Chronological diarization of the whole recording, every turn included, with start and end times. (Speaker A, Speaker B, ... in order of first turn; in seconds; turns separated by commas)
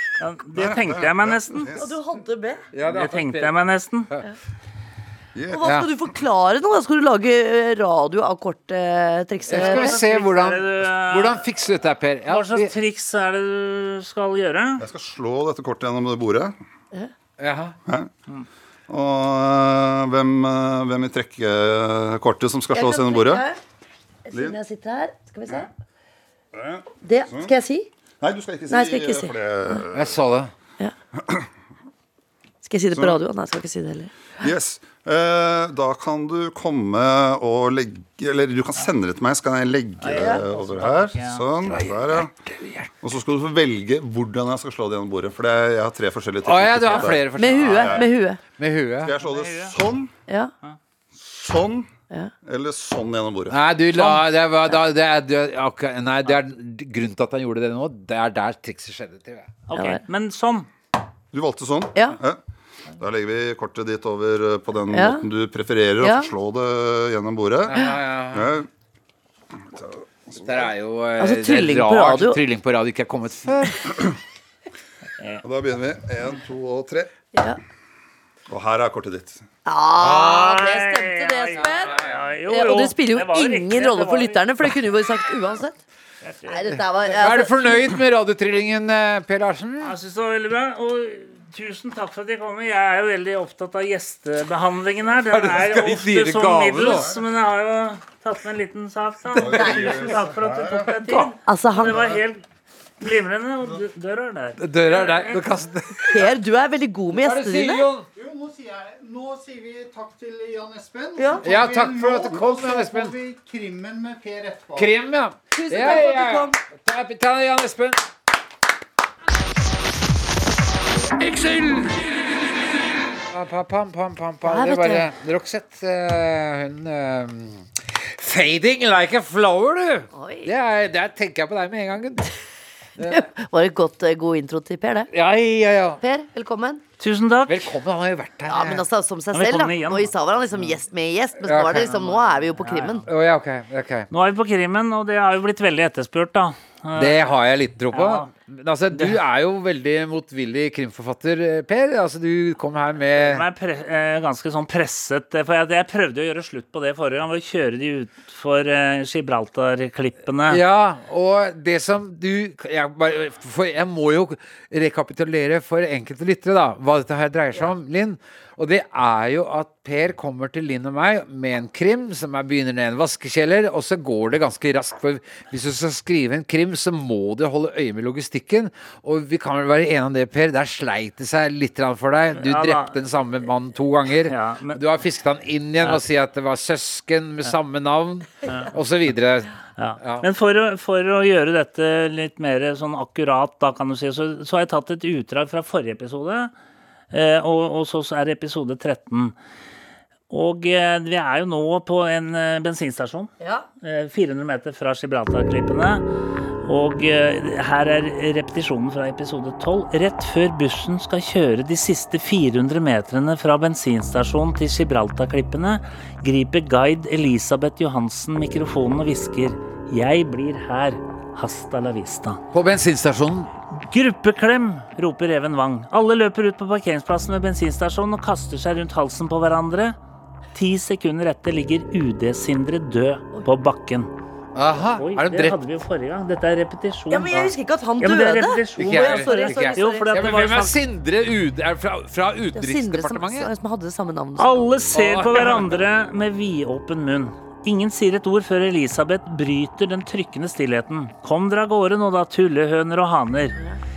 Speaker A: 0.2-1.7, Speaker B: 0.5-1.8, Speaker C: 1.8-2.6, Speaker D: 2.7-3.5, Speaker A: 2.8-4.1, Speaker B: 5.3-5.8, Speaker C: 5.5-10.1, Speaker D: 9.5-12.7, Speaker A: 9.5-11.4, Speaker A: 12.2-14.8, Speaker B: 14.8-16.5, Speaker D: 17.4-17.7, Speaker B: 18.9-23.4, Speaker C: 22.7-23.6, Speaker C: 24.2-25.6, Speaker B: 26.5-27.5, Speaker C: 27.0-27.9, Speaker B: 28.2-30.1, Speaker C: 28.7-29.8, Speaker D: 29.9-30.5, Speaker B: 31.2-31.5, Speaker C: 32.6-34.1, Speaker B: 32.9-33.2, Speaker B: 34.4-42.3, Speaker A: 40.0-41.5, Speaker C: 40.1-40.4, Speaker D: 41.6-42.9, Speaker B: 43.0-48.1, Speaker D: 46.4-49.1, Speaker C: 47.3-48.4, Speaker B: 49.0-50.1, Speaker A: 49.2-49.8, Speaker B: 51.1-51.9, Speaker B: 52.4-53.6, Speaker D: 53.5-59.5, Speaker C: 54.0-54.7, Speaker A: 59.7-60.7, Speaker C: 59.7-60.0, Speaker B: 61.3-62.4, Speaker B: 63.0-68.7, Speaker C: 64.9-65.2, Speaker C: 66.0-66.3, Speaker D: 67.7-68.5, Speaker B: 69.7-70.4, Speaker D: 70.4-73.9, Speaker C: 71.2-72.4, Speaker B: 75.4-77.1, Speaker C: 77.3-77.6, Speaker B: 78.5-79.4, Speaker C: 79.6-85.8, Speaker D: 80.0-80.5, Speaker A: 80.1-84.4, Speaker D: 81.6-82.2, Speaker A: 86.2-86.7, Speaker C: 86.5-88.0, Speaker D: 86.7-90.0, Speaker A: 89.8-102.4, Speaker D: 95.3-97.1, Speaker B: 96.9-97.1, Speaker B: 99.3-100.9, Speaker C: 99.6-99.9, Speaker C: 101.4-102.2, Speaker A: 103.0-105.5, Speaker D: 104.6-106.3, Speaker C: 106.1-107.9, Speaker D: 107.1-108.1, Speaker E: 108.9-110.8, Speaker C: 111.1-111.5, Speaker D: 111.4-113.7, Speaker E: 114.0-114.5, Speaker D: 114.7-118.1, Speaker C: 115.5-116.6, Speaker D: 123.3-132.3, Speaker C: 124.4-125.1, Speaker C: 130.1-130.5, Speaker D: 133.0-133.2, Speaker C: 133.0-135.1, Speaker D: 135.1-136.0, Speaker C: 136.0-136.8, Speaker A: 137.0-137.7, Speaker D: 137.5-138.8, Speaker C: 138.5-143.0, Speaker A: 139.3-140.1, Speaker D: 141.4-141.9, Speaker A: 141.7-143.0, Speaker D: 143.0-144.1, Speaker A: 144.1-147.3, Speaker D: 146.9-153.5, Speaker A: 147.9-148.3, Speaker A: 148.9-149.2, Speaker A: 153.2-160.6, Speaker D: 160.5-190.3, Speaker A: 182.3-183.0, Speaker A: 184.2-184.8, Speaker A: 188.4-188.7, Speaker A: 189.8-196.5, Speaker A: 197.1-199.3, Speaker A: 200.3-203.3, Speaker C: 203.4-203.7, Speaker A: 203.8-206.0, Speaker A: 206.6-222.4, Speaker D: 222.5-223.5, Speaker A: 223.7-230.0, Speaker A: 230.5-234.1, Speaker D: 234.5-235.6, Speaker A: 234.9-240.8, Speaker C: 237.1-240.3, Speaker D: 238.8-243.5, Speaker C: 242.5-244.7, Speaker A: 244.4-253.6, Speaker D: 244.9-245.8